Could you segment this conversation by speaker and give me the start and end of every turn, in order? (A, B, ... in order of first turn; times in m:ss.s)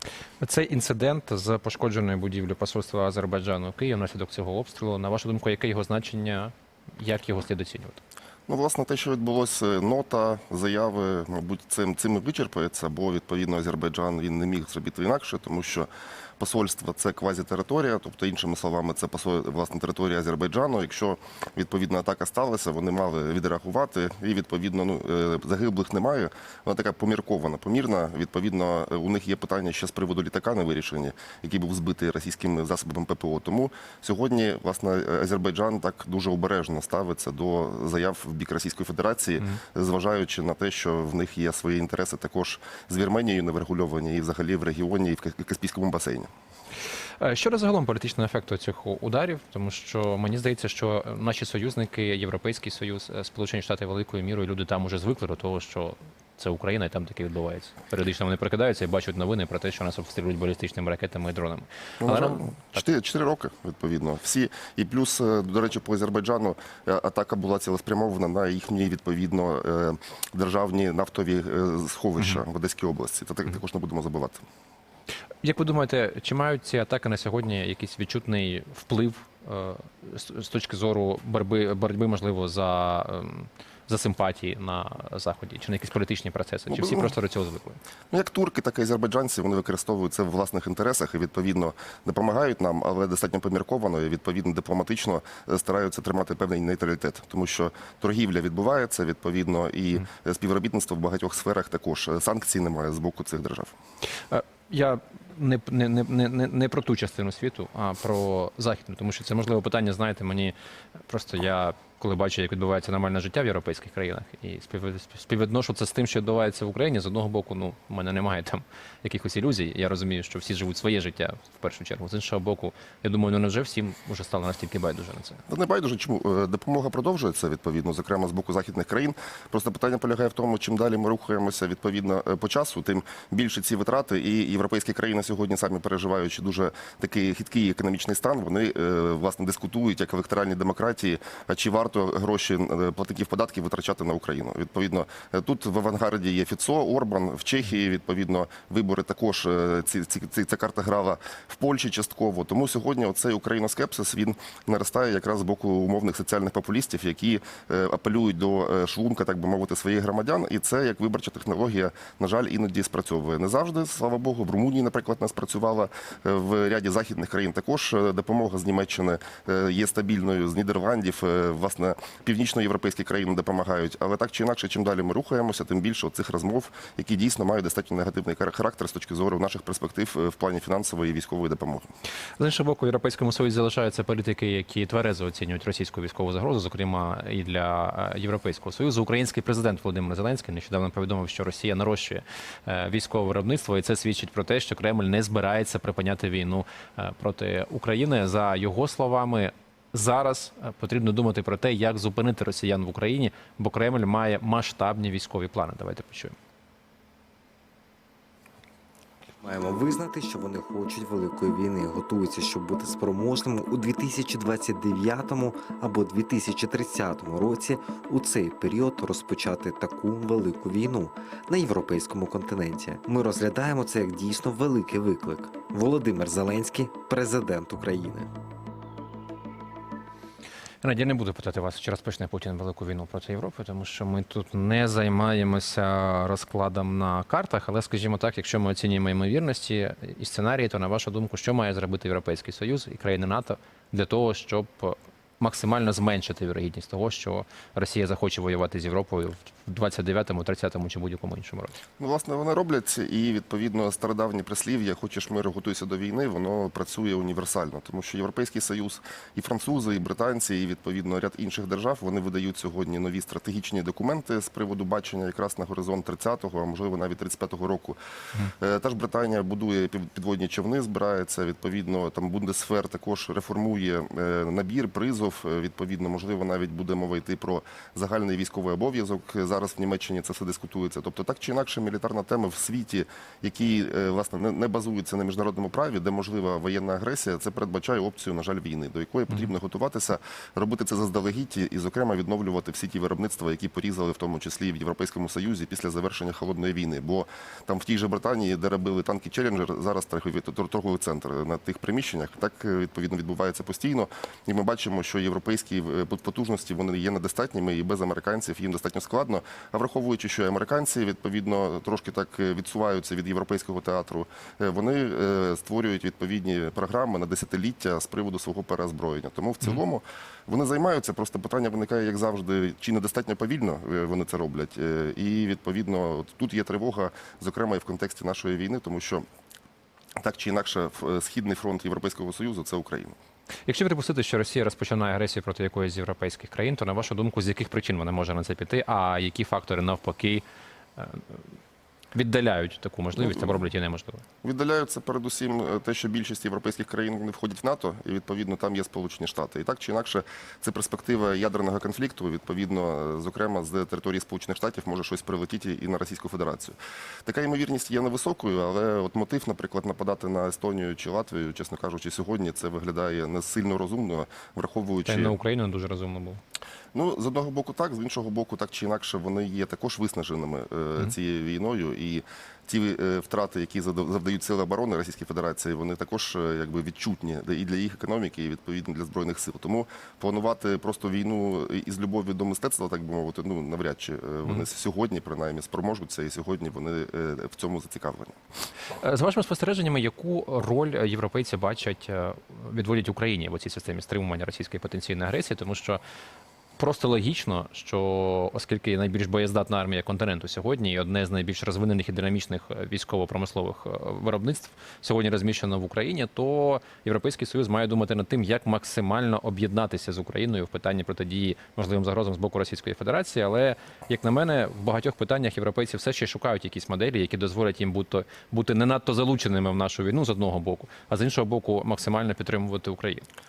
0:00.4-0:08.0 A
0:08.5-0:46.3 B
0:47.2-1:02.6 A
1:02.0-1:14.4 B
1:15.4-1:27.8 A
1:26.7-1:27.1 B
1:28.1-1:43.7 B
1:44.3-1:50.5 A
1:51.1-2:05.4 A
2:05.5-3:01.9 B
3:02.4-3:26.3 A
3:29.4-3:48.3 C
3:50.8-4:11.7 A
4:12.0-4:28.0 B
4:28.5-5:29.2 B
5:30.2-5:33.1 B
5:33.6-5:40.4 A
5:41.0-5:41.4 A
5:42.1-5:44.2 A
5:43.2-5:43.6 B
5:44.4-6:05.4 B
6:05.0-6:06.4 A
6:06.9-6:28.4 B
6:29.0-6:36.0 A
6:36.8-7:03.2 A